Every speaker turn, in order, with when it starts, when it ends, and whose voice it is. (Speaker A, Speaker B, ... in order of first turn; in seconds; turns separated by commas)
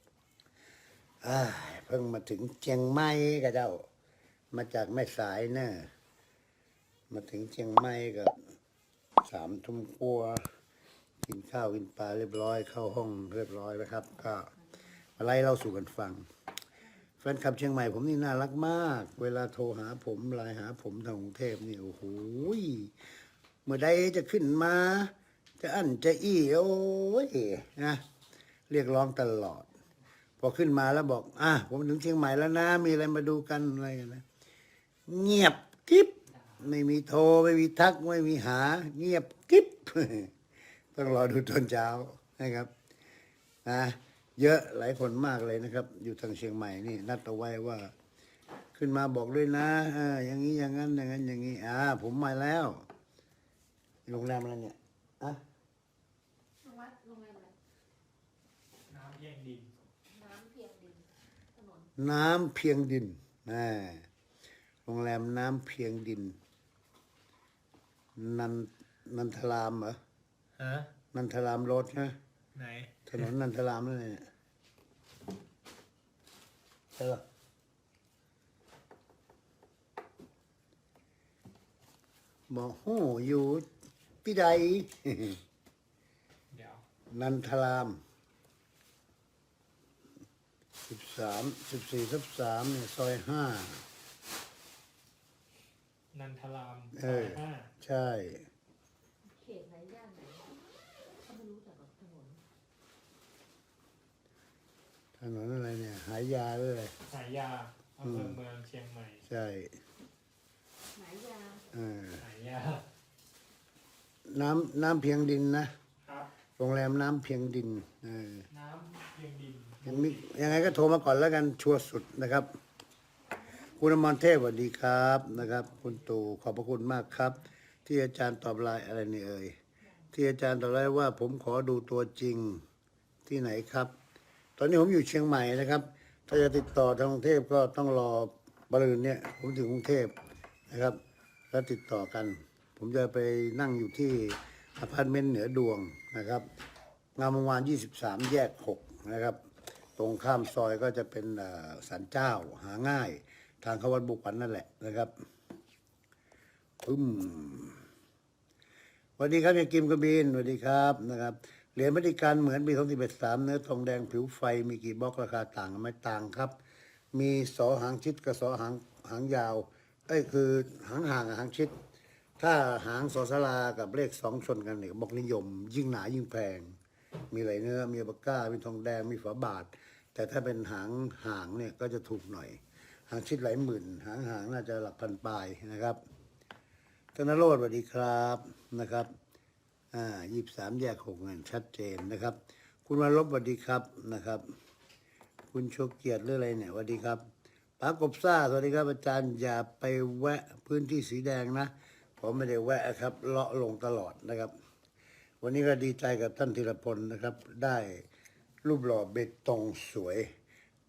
Speaker A: 1.2-3.9, Speaker A: 4.5-5.9, Speaker A: 7.1-8.4, Speaker A: 9.2-10.5, Speaker A: 11.2-14.5, Speaker A: 15.2-16.3, Speaker A: 17.2-22.9, Speaker A: 23.7-28.0, Speaker A: 28.7-29.7, Speaker A: 30.4-34.2, Speaker A: 35.1-40.3, Speaker A: 40.9-42.7, Speaker A: 43.6-47.9, Speaker A: 48.8-52.9, Speaker A: 54.1-55.4, Speaker B: 56.6-57.5, Speaker C: 58.9-59.7, Speaker B: 60.1-61.9, Speaker A: 62.0-64.1, Speaker A: 64.9-66.4, Speaker A: 68.2-70.0, Speaker C: 70.6-70.9, Speaker A: 71.1-72.2, Speaker C: 72.5-73.3, Speaker A: 73.1-74.3, Speaker A: 77.0-77.2, Speaker A: 82.5-83.7, Speaker A: 84.2-85.4, Speaker C: 86.5-86.8, Speaker A: 87.1-88.0, Speaker A: 90.9-93.9, Speaker C: 96.1-97.7, Speaker A: 97.0-98.5, Speaker B: 99.2-100.5, Speaker B: 101.2-102.4, Speaker A: 105.2-107.0, Speaker C: 107.1-109.2, Speaker A: 108.0-108.4, Speaker A: 109.2-109.8, Speaker B: 110.9-111.6, Speaker A: 111.7-112.2, Speaker C: 112.2-112.9, Speaker A: 114.3-115.7, Speaker C: 116.0-116.3, Speaker A: 116.6-118.5, Speaker C: 118.5-120.6, Speaker A: 119.8-122.6, Speaker A: 123.8-129.6, Speaker A: 130.1-132.6, Speaker A: 133.3-133.9, Speaker A: 134.6-140.1, Speaker A: 140.7-141.0, Speaker A: 141.5-146.5, Speaker A: 147.2-149.4, Speaker A: 150.0-155.1, Speaker A: 156.8-157.8, Speaker A: 159.2-166.6, Speaker A: 167.1-171.8, Speaker A: 172.4-176.8, Speaker A: 177.3-186.0, Speaker A: 187.2-189.1, Speaker A: 189.9-194.5, Speaker A: 195.5-197.2, Speaker A: 197.8-204.5, Speaker A: 205.4-208.1, Speaker A: 208.6-210.3